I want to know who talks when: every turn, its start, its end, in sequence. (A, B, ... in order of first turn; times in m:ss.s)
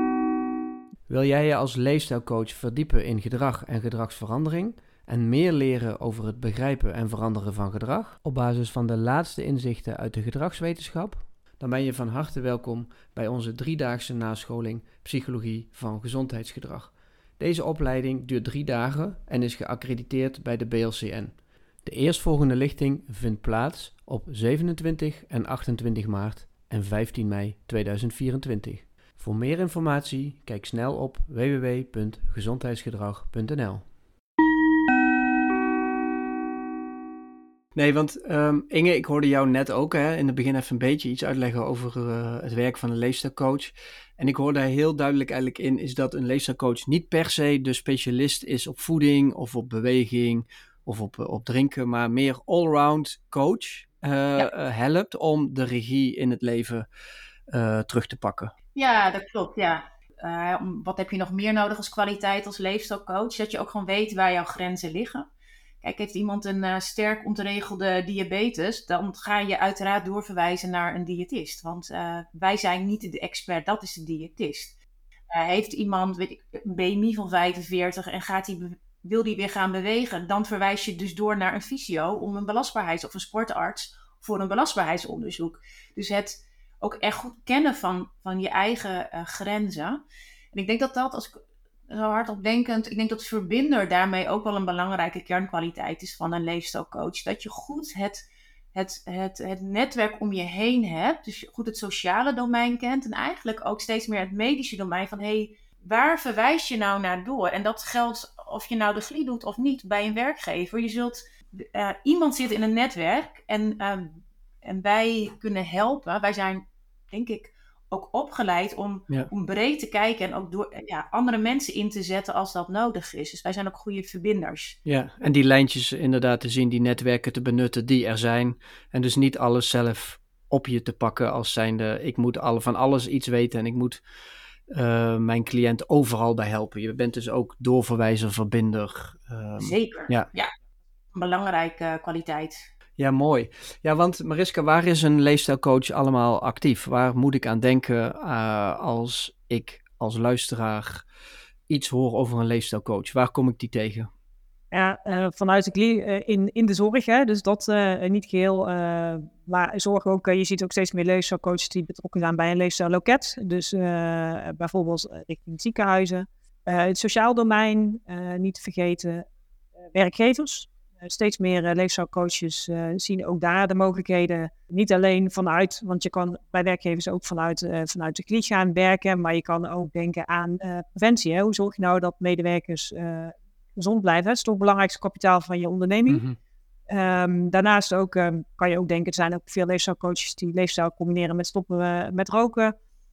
0:01.1-0:33.9 A
0:37.7-0:56.9 A
0:57.5-0:58.5 A
0:58.8-1:05.3 B
1:05.8-1:14.8 B
1:15.3-1:30.0 B
1:30.5-2:04.8 B
2:04.9-2:14.0 A
2:14.7-2:20.3 A
2:19.6-2:20.5 B
2:21.1-2:22.6 B
2:23.0-2:31.1 A
2:31.7-2:34.1 A
2:34.7-2:49.3 C
2:49.9-3:06.2 C
3:06.1-3:06.4 A
3:06.9-3:12.8 C